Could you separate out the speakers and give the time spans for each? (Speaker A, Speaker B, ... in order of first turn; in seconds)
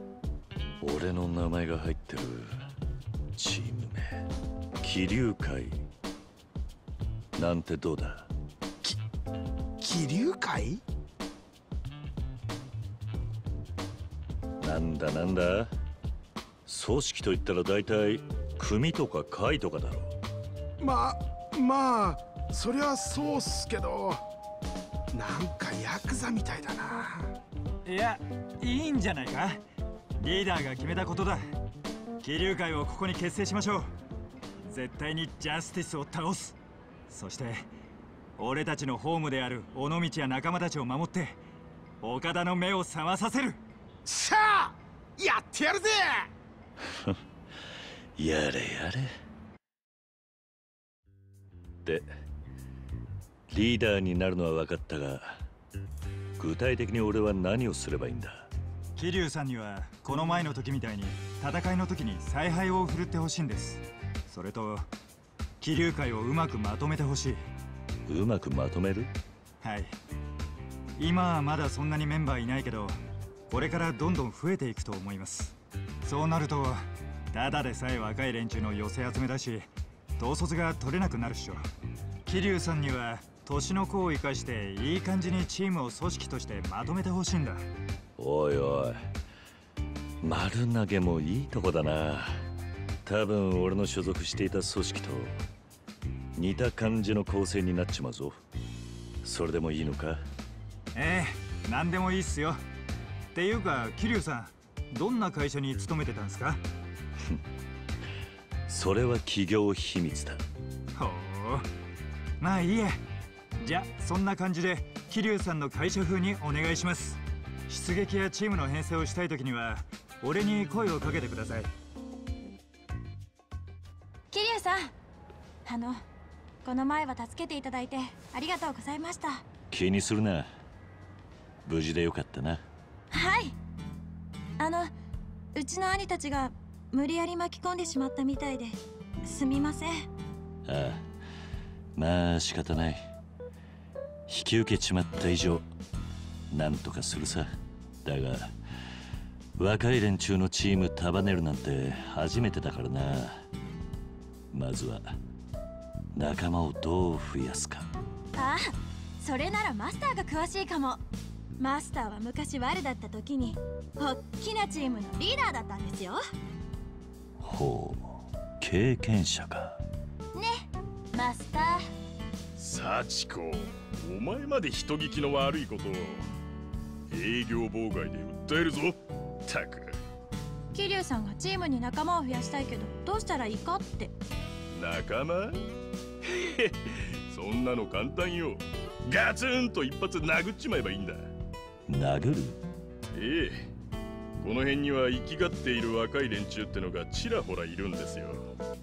Speaker A: 0.8-2.7, 3.4-4.3, 4.8-5.9, 7.3-8.3, 14.6-15.7, 16.6-20.1, 46.8-47.2, 48.1-49.1, 51.8-52.1, 53.5-55.5, 56.4-58.5, 68.1-69.1, 88.2-89.1, 90.2-92.5, 93.0-95.4, 96.3-98.4, 99.2-100.2, 108.7-110.4, 129.7-130.5, 131.6-132.6, 140.6-141.1, 141.9-143.1, 144.3-145.7, 146.5-147.5, 148.0-148.6, 149.6-153.4, 154.5-155.2, 156.1-157.9, 167.4-169.8, 191.9-192.6
Speaker B: 9.8-10.8, 20.8-24.2, 25.1-27.3, 44.1-46.3
Speaker C: 27.9-29.6, 30.2-31.5, 32.2-33.9, 34.7-36.6, 37.1-37.7, 38.4-41.4, 42.0-43.6, 59.0-64.9, 65.6-67.4, 69.6-70.0, 71.0-81.6, 82.3-87.6, 100.9-102.6, 103.3-106.6, 111.0-111.7, 112.4-113.0, 113.6-121.7
Speaker D: 124.3-124.9, 125.7-126.0, 126.6-129.4, 133.1-133.6, 134.6-134.9, 135.6-140.1, 158.4-161.0, 161.6-166.2, 170.3-171.8, 180.7-184.1
Speaker E: 172.6-176.3, 177.1-180.0, 184.7-185.6, 186.2-191.3, 193.1-193.7, 194.4-198.5